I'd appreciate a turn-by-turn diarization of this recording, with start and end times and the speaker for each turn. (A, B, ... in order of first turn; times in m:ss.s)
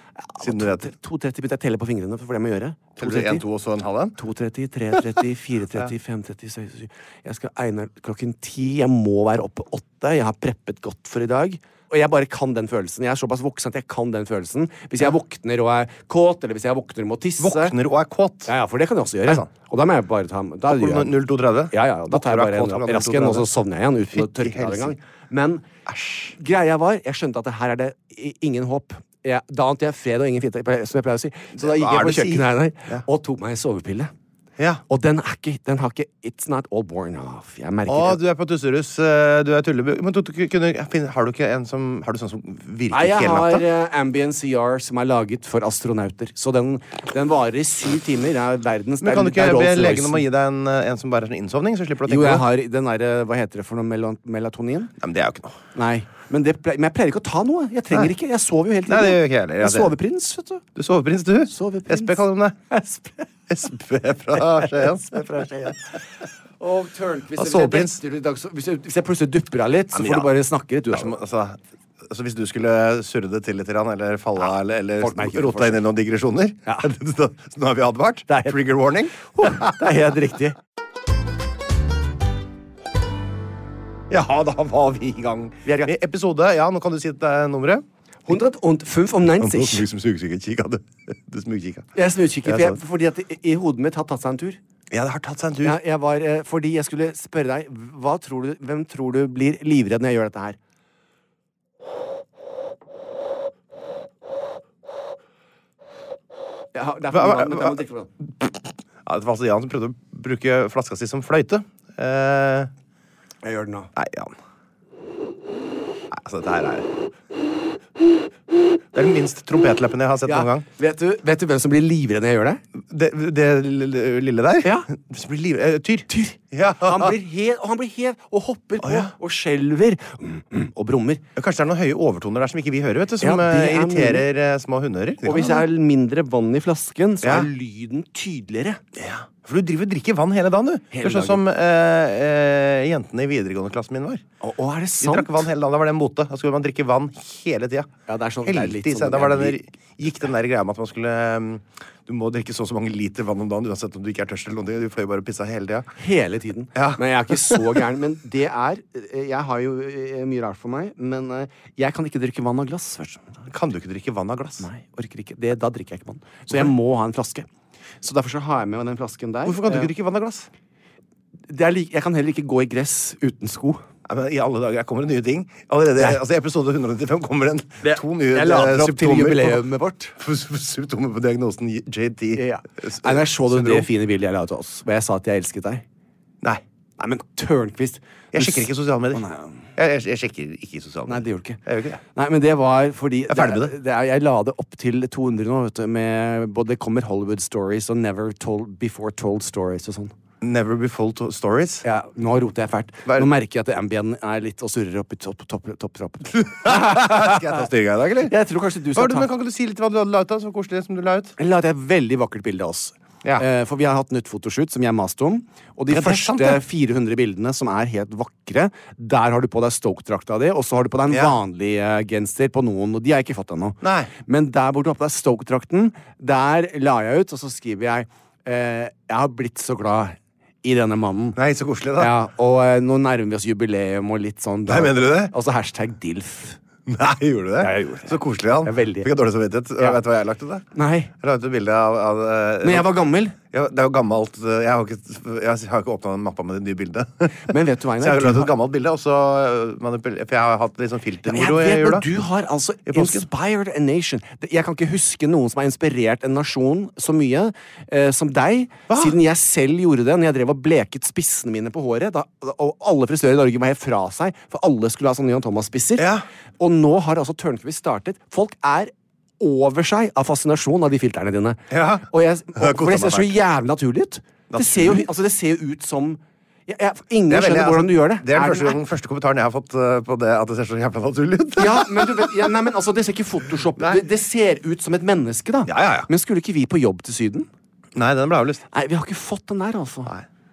0:00.2-0:03.4 A
0:00.4-0:00.9 B
0:03.0-0:04.2 B
0:04.2-0:17.8 A
0:17.4-0:18.5 B
0:18.5-0:25.6 A
0:20.7-0:23.5 B
0:24.1-0:25.0 B
0:25.9-0:26.4 B
0:26.4-0:34.1 A
0:31.6-0:33.0 B
0:34.6-0:34.8 B
0:34.9-0:38.2 A
0:37.9-0:43.6 B
0:42.9-0:50.3 A
0:49.0-0:52.4 B
0:52.1-0:54.9 A
0:55.0-0:55.6 B
0:55.8-1:00.6 A
0:58.9-0:59.9 B
1:00.8-1:02.7 B
1:01.5-1:03.2 A
1:03.5-1:05.8 B
1:05.1-1:06.0 A
1:06.6-1:11.1 A
1:07.4-1:08.0 B
1:09.9-1:10.3 B
1:10.9-1:19.7 B
1:15.0-1:15.9 A
1:16.7-1:16.9 A
1:18.3-1:18.6 A
1:19.2-1:20.6 A
1:24.1-1:27.8 B
1:25.6-1:26.0 A
1:28.3-1:29.9 A
1:29.4-1:32.8 B
1:32.0-1:34.6 A
1:34.9-1:35.8 B
1:35.6-1:40.6 A
1:46.8-1:48.1 A
1:47.1-1:47.8 B
1:48.4-1:52.7 B
1:53.4-1:53.9 A
1:54.0-1:54.4 B
1:56.1-1:56.9 B
1:58.9-2:00.7 B
2:00.3-2:02.6 A
2:02.8-2:07.1 B
2:04.6-2:04.9 A
2:06.1-2:11.2 A
2:08.8-2:09.1 B
2:11.4-2:15.6 B
2:13.2-2:14.3 A
2:15.2-2:18.8 A
2:17.2-2:17.5 B
2:19.0-2:24.2 B
2:20.9-2:21.4 A
2:24.4-2:25.5 A
2:25.0-2:27.9 B
2:28.1-2:29.6 A
2:28.4-2:35.9 B
2:36.0-2:43.5 A
2:36.8-2:37.8 B
2:43.5-2:44.7 B
2:44.6-2:47.5 A
2:48.0-2:49.9 A
2:49.4-2:50.5 B
2:51.5-2:53.8 A
2:54.1-2:59.6 B
2:57.8-3:00.2 A
3:00.2-3:03.9 B
3:02.3-3:05.8 A
3:07.0-3:09.7 A
3:08.3-3:09.2 B
3:09.8-3:12.0 B
3:11.1-3:11.6 A
3:12.1-3:20.1 A
3:13.3-3:13.8 B
3:20.4-3:21.8 B
3:21.8-3:27.6 A
3:26.4-3:28.3 B
3:28.3-3:29.3 A
3:28.9-3:31.4 B
3:31.4-3:51.4 A
3:35.9-3:36.6 B
3:41.1-3:41.4 B
3:43.8-3:44.1 B
3:51.4-3:52.1 B
3:52.0-3:56.6 A
3:54.7-3:55.3 B
3:56.9-4:00.7 B
3:57.6-3:59.1 A
4:00.7-4:01.1 A
4:01.2-4:12.1 B
4:02.6-4:03.4 A
4:07.5-4:08.5 A
4:11.3-4:38.8 A
4:12.9-4:13.3 B
4:18.9-4:19.2 B
4:26.0-4:26.2 B
4:31.7-4:33.4 B
4:34.5-4:35.1 B
4:37.3-4:42.5 B
4:41.6-4:47.5 A
4:43.8-4:44.0 B
4:45.7-4:46.1 B
4:48.0-4:48.7 B
4:48.7-4:50.1 A